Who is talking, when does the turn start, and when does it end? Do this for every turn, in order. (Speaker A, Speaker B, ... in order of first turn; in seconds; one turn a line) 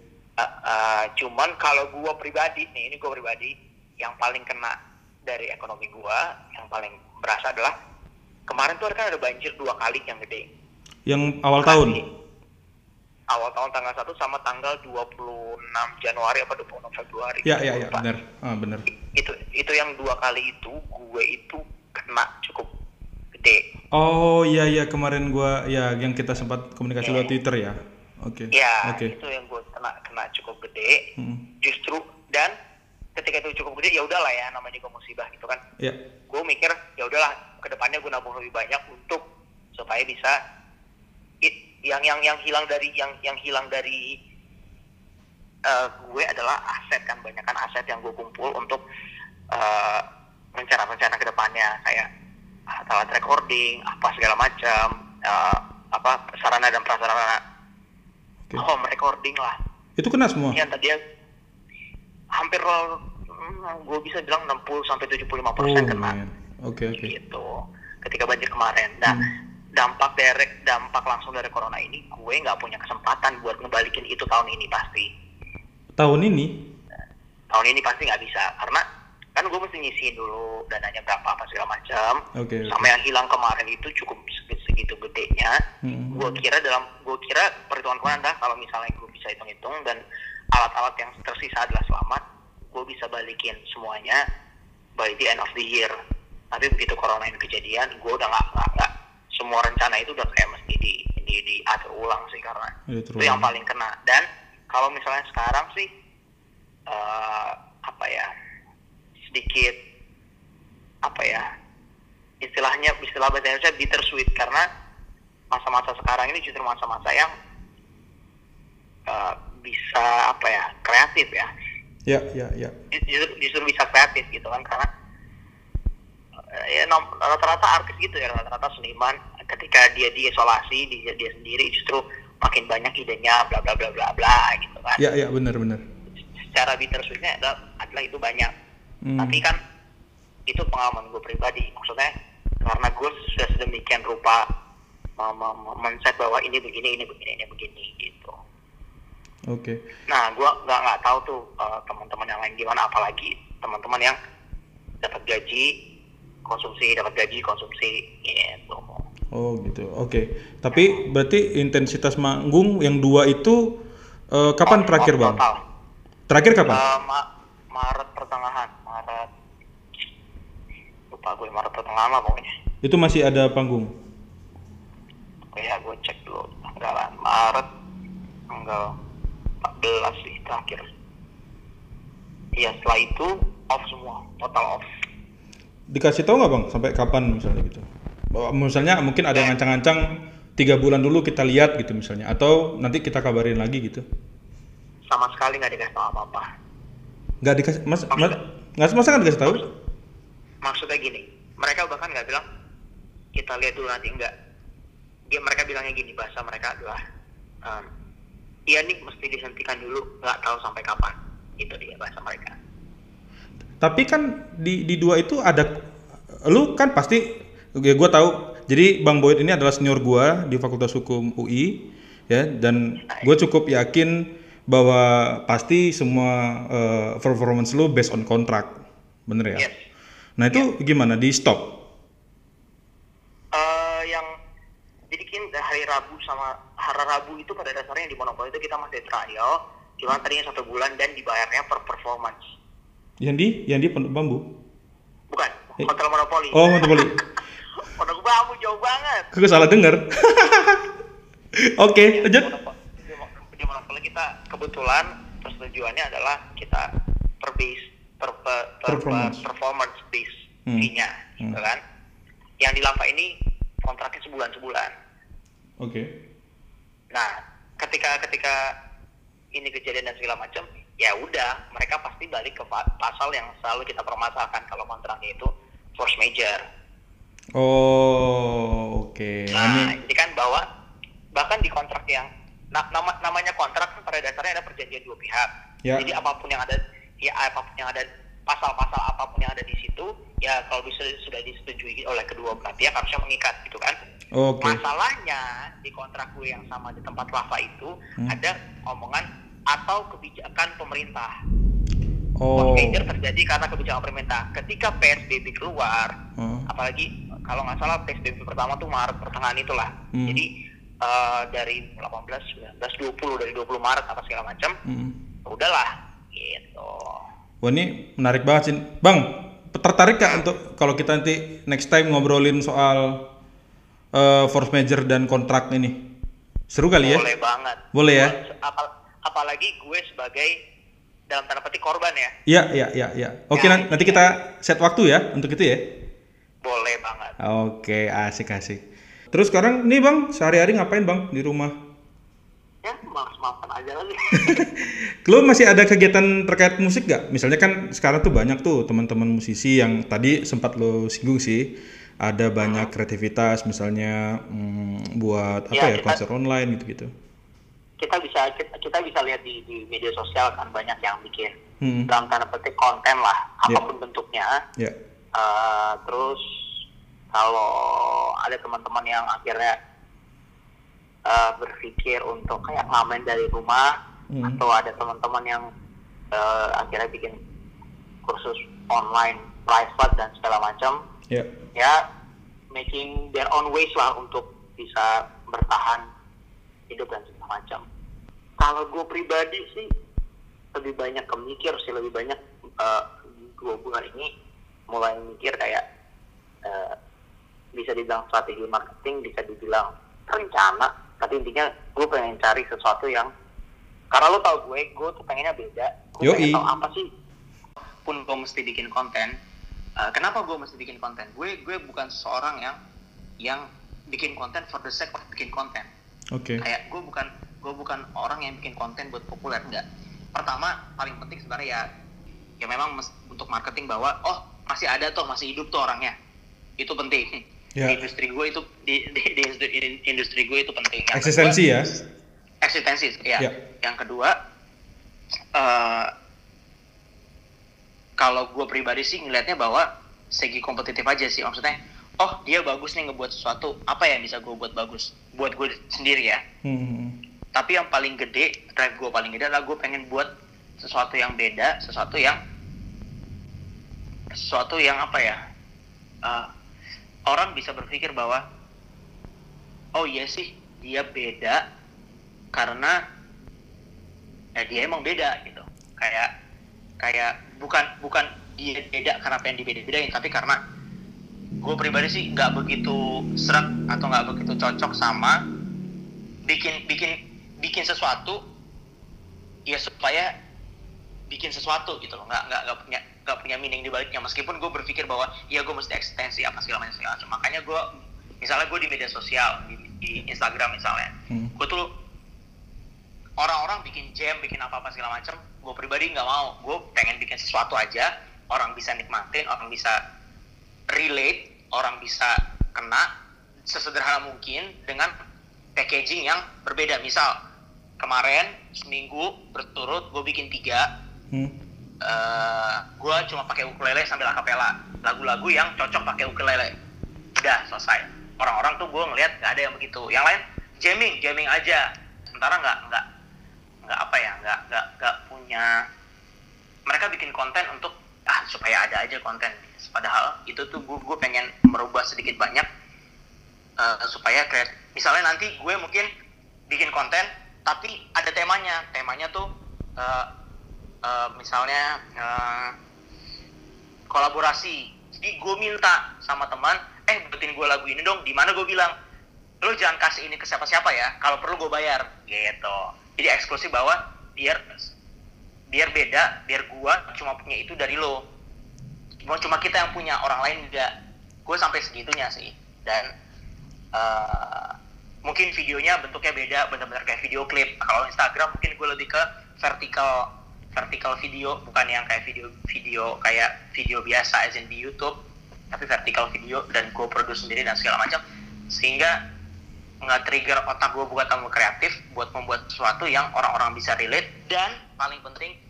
Speaker A: 0.4-7.7
Speaker A: 8.5-10.5
Speaker B: 11.1-12.0
Speaker A: 11.6-12.0
Speaker A: 13.3-18.1
Speaker B: 17.4-18.9
Speaker A: 19.1-22.7
Speaker A: 23.3-23.6
Speaker B: 23.9-29.1
Speaker A: 27.0-27.3
Speaker A: 28.5-31.0
Speaker B: 31.2-31.4
Speaker A: 31.6-32.5
Speaker A: 33.1-35.6
Speaker A: 36.3-39.2
Speaker A: 39.7-40.4
Speaker A: 41.4-44.1
Speaker A: 45.6-48.8
Speaker A: 49.5-52.1
Speaker A: 52.7-57.4
Speaker A: 58.5-59.6
Speaker B: 60.0-60.6
Speaker A: 60.5-61.0
Speaker A: 62.3-66.2
Speaker B: 65.6-67.1
Speaker A: 66.9-67.5
Speaker A: 68.0-69.2
Speaker A: 69.8-75.1
Speaker B: 75.9-76.7
Speaker A: 77.5-78.8
Speaker A: 79.3-85.6
Speaker B: 82.3-82.9
Speaker B: 85.8-86.4
Speaker A: 86.1-90.0
Speaker A: 90.5-94.2
Speaker A: 95.0-95.9
Speaker A: 96.5-105.9
Speaker B: 102.9-103.5
Speaker A: 106.9-108.3
Speaker A: 109.3-109.8
Speaker A: 111.0-111.5
Speaker A: 112.4-114.7
Speaker A: 115.5-117.3
Speaker A: 119.1-121.5
Speaker B: 122.1-122.7
Speaker A: 122.9-124.9
Speaker A: 126.5-135.0
Speaker B: 135.0-135.8
Speaker A: 136.5-138.5
Speaker B: 139.0-139.4
Speaker A: 139.2-139.6
Speaker A: 140.5-142.1
Speaker A: 142.6-144.4
Speaker A: 145.2-148.3
Speaker B: 149.5-149.8
Speaker A: 150.1-154.2
Speaker A: 155.0-155.7
Speaker A: 156.4-159.0
Speaker B: 159.3-163.8
Speaker A: 160.7-161.0
Speaker B: 164.3-165.4
Speaker A: 164.7-165.6
Speaker B: 166.3-166.8
Speaker A: 166.7-169.3
Speaker A: 171.1-172.5
Speaker B: 172.8-173.9
Speaker A: 175.5-177.7
Speaker A: 178.5-178.9
Speaker A: 179.6-180.9
Speaker A: 182.6-184.8
Speaker B: 185.9-194.0
Speaker A: 195.1-196.5
Speaker B: 197.4-199.7
Speaker A: 198.1-198.4
Speaker A: 200.6-202.4
Speaker A: 203.3-204.3
Speaker A: 205.3-207.0
Speaker A: 208.7-212.6
Speaker B: 213.8-215.8
Speaker B: 216.4-217.2
Speaker B: 217.8-229.7
Speaker A: 229.6-229.8
Speaker B: 230.4-231.8
Speaker A: 233.5-234.3
Speaker A: 235.1-242.4
Speaker B: 243.2-244.4
Speaker A: 245.3-247.2
Speaker B: 246.5-247.2
Speaker A: 247.8-249.3
Speaker B: 249.3-250.8
Speaker B: 251.6-252.5
Speaker A: 252.0-256.9
Speaker A: 257.4-261.8
Speaker B: 258.9-259.4
Speaker B: 260.7-261.6
Speaker A: 262.6-263.3
Speaker A: 263.8-264.9
Speaker B: 265.8-266.1
Speaker A: 267.1-268.7
Speaker A: 269.5-276.6
Speaker B: 277.6-280.0
Speaker A: 279.5-280.6
Speaker A: 281.3-294.0
Speaker B: 294.3-294.8
Speaker A: 294.6-301.3
Speaker B: 302.4-303.1
Speaker A: 302.6-306.1
Speaker B: 306.4-306.7
Speaker A: 306.7-310.5
Speaker B: 310.1-310.4
Speaker A: 311.0-314.8
Speaker B: 314.9-315.2
Speaker A: 315.4-317.2
Speaker B: 317.6-323.2
Speaker B: 324.1-326.0
Speaker B: 326.7-327.2
Speaker A: 327.0-330.5
Speaker B: 327.9-328.4
Speaker A: 331.3-332.3
Speaker B: 332.5-335.9
Speaker A: 333.5-334.2
Speaker A: 336.6-337.4
Speaker B: 337.4-341.8
Speaker A: 342.8-344.6
Speaker B: 344.3-357.1
Speaker A: 352.6-352.9
Speaker A: 355.7-356.2
Speaker A: 358.0-361.5
Speaker B: 361.8-362.1
Speaker A: 362.1-364.6
Speaker A: 365.3-366.4
Speaker A: 367.3-369.8
Speaker A: 371.2-373.9
Speaker B: 374.3-374.6
Speaker A: 374.4-375.7
Speaker A: 376.3-377.4
Speaker A: 378.2-381.0
Speaker A: 382.7-386.1
Speaker A: 386.9-387.8
Speaker A: 388.6-389.9
Speaker A: 390.7-394.3
Speaker A: 394.9-395.8
Speaker A: 396.6-396.9
Speaker A: 397.8-403.3
Speaker A: 404.1-407.1
Speaker B: 406.2-406.6
Speaker A: 408.0-409.4
Speaker A: 410.0-412.8
Speaker A: 413.4-415.9
Speaker B: 416.3-416.6
Speaker A: 416.6-421.8
Speaker A: 422.6-426.1
Speaker A: 426.8-431.6
Speaker B: 431.1-432.0
Speaker A: 432.6-434.3
Speaker A: 435.5-436.1
Speaker A: 438.2-446.4
Speaker B: 446.6-447.2
Speaker A: 447.5-452.4
Speaker A: 454.3-455.4
Speaker A: 456.2-456.5
Speaker A: 457.3-458.4
Speaker A: 459.9-461.6
Speaker A: 462.5-463.0
Speaker A: 464.6-466.3
Speaker A: 467.0-470.6
Speaker A: 471.6-475.4
Speaker A: 476.4-478.4
Speaker A: 479.7-480.3
Speaker A: 481.3-487.9
Speaker A: 488.4-491.9
Speaker A: 493.4-500.0
Speaker A: 500.9-503.1
Speaker A: 503.7-505.1
Speaker A: 505.8-507.3
Speaker A: 508.0-510.9
Speaker B: 511.3-511.6
Speaker A: 512.0-516.7
Speaker A: 517.4-523.0
Speaker A: 523.9-525.7
Speaker A: 526.9-532.7
Speaker A: 533.8-536.1
Speaker A: 536.7-539.5
Speaker A: 540.0-540.3
Speaker A: 541.0-542.7
Speaker A: 544.1-548.9
Speaker A: 549.6-554.9
Speaker A: 555.7-558.2
Speaker A: 559.2-560.9
Speaker A: 561.5-563.1
Speaker A: 563.9-575.1
Speaker A: 575.7-579.1
Speaker A: 580.0-585.5